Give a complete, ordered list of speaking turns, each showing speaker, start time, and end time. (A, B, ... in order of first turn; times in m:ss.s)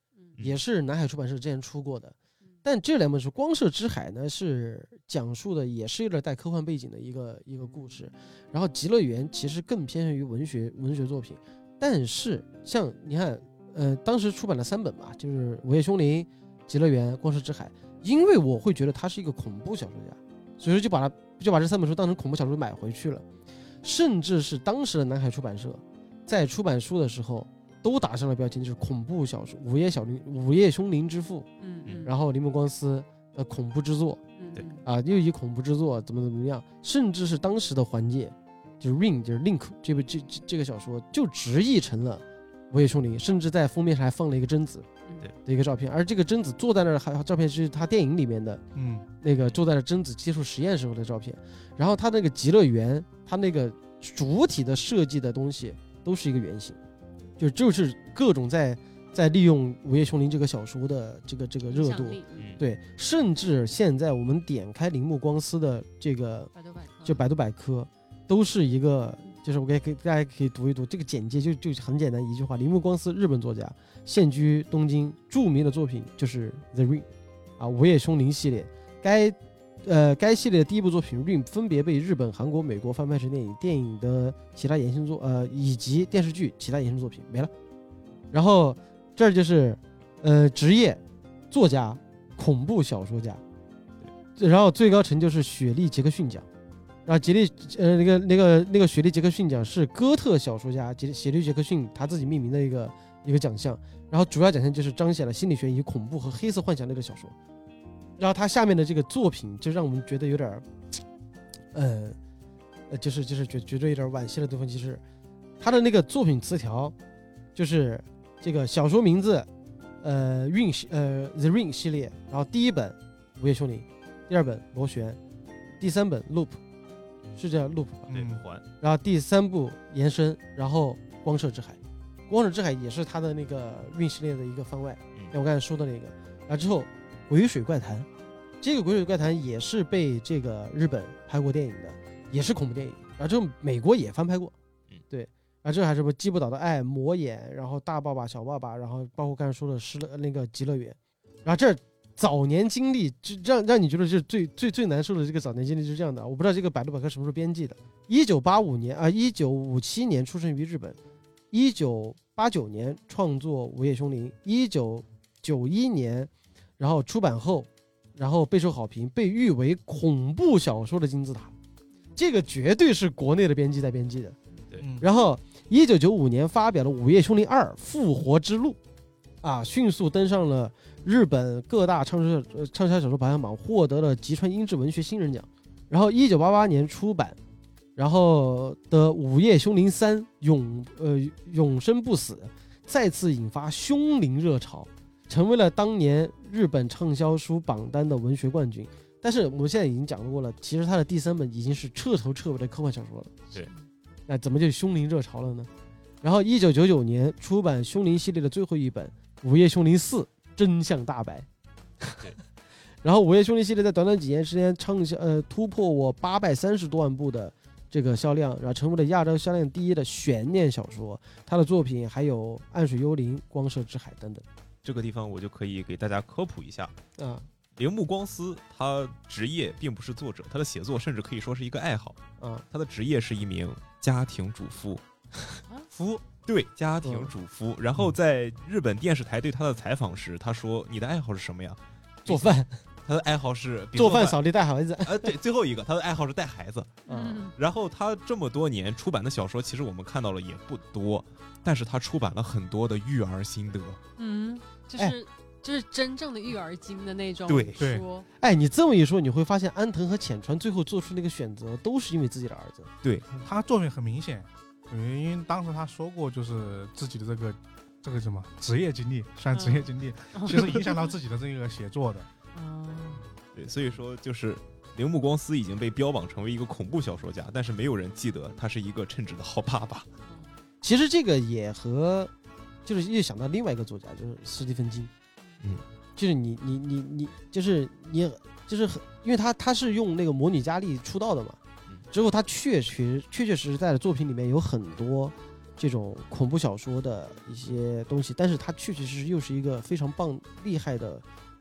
0:00.4-0:23.2 A
0:23.8-0:31.5 A
0:31.6-0:32.1 B
0:32.0-0:34.2 A
0:34.4-0:34.8 B
0:34.8-0:44.9 A
0:45.4-0:48.6 A
0:48.7-0:49.1 C
0:49.2-0:56.8 A
0:57.4-1:06.5 A
1:01.7-1:02.6 B
1:02.4-1:02.6 D
1:06.5-1:07.2 B
1:07.0-1:17.1 A
1:17.6-1:27.5 A
1:28.3-1:33.4 A
1:34.4-1:36.4 A
1:37.0-1:47.3 A
1:48.2-1:50.6 A
1:51.7-1:52.2 A
1:52.9-1:55.0 A
1:55.6-1:56.9 A
1:57.6-1:59.5 A
2:00.0-2:05.2 A
2:05.8-2:06.6 A
2:07.4-2:08.1 A
2:08.1-2:08.6 D
2:08.1-2:08.4 C
2:08.8-2:18.1 A
2:18.6-2:24.5 A
2:25.1-2:41.0 A
2:41.5-2:51.5 A
2:52.2-2:54.4 A
2:54.8-2:55.1 C
2:55.0-2:58.8 A
2:59.4-3:07.4 A
3:08.0-3:23.3 A
3:24.3-3:25.7 A
3:26.2-3:31.5 A
3:32.0-3:32.3 A
3:33.0-3:44.4 A
3:44.8-3:46.9 D
3:47.2-3:47.4 A
3:47.8-3:52.2 D
3:52.4-3:52.6 A
3:52.7-3:55.0 D
3:56.4-4:04.4 D
3:57.0-3:57.3 A
4:02.3-4:02.7 A
4:03.9-4:05.3 A
4:05.0-4:07.0 D
4:07.1-4:07.6 B
4:07.1-4:07.4 A
4:07.6-4:14.0 D
4:14.2-4:18.3 B
4:17.5-4:17.8 D
4:17.8-4:18.0 C
4:18.4-4:22.9 A
4:23.0-4:23.3 D
4:23.4-4:32.3 C
4:29.5-4:30.8 B
4:32.5-4:33.2 B
4:33.6-4:40.1 D
4:40.2-4:40.5 B
4:40.8-4:42.3 A
4:42.8-4:45.1 A
4:46.2-4:51.6 A
4:52.1-5:01.2 A